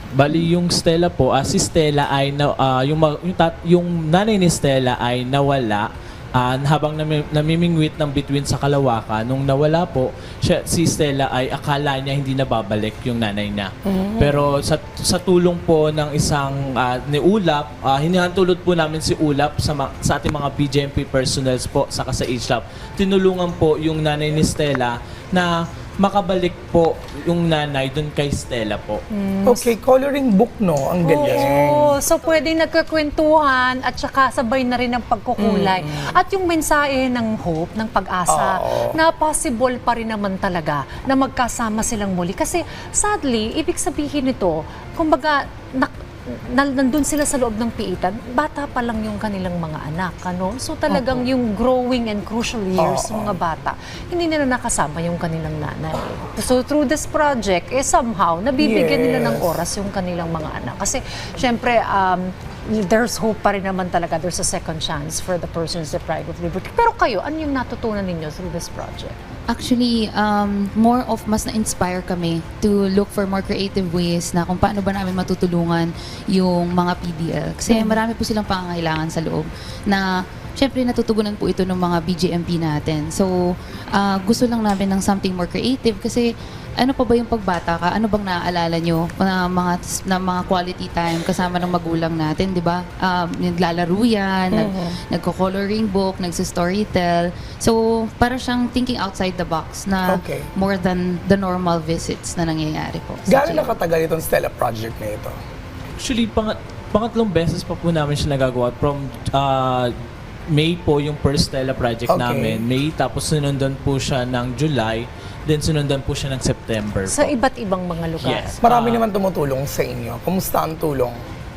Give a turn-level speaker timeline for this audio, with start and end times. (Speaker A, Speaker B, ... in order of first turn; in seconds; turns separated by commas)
Speaker A: 0.1-29.0, Speaker B: 13.9-14.4, Speaker C: 29.1-29.7, Speaker B: 29.4-32.0, Speaker C: 31.0-69.2, Speaker B: 35.4-36.1, Speaker B: 38.3-39.0, Speaker B: 50.9-51.2, Speaker B: 52.8-53.4, Speaker B: 58.6-59.5, Speaker D: 69.5-80.1, Speaker C: 77.7-78.0, Speaker D: 80.6-83.3, Speaker D: 83.9-86.2, Speaker D: 86.8-103.8, Speaker B: 94.5-94.9, Speaker B: 100.1-100.5, Speaker B: 103.3-105.3, Speaker A: 106.0-109.9, Speaker A: 110.5-117.3, Speaker B: 112.1-112.6, Speaker C: 117.1-118.6, Speaker A: 118.2-119.0, Speaker B: 118.6-121.2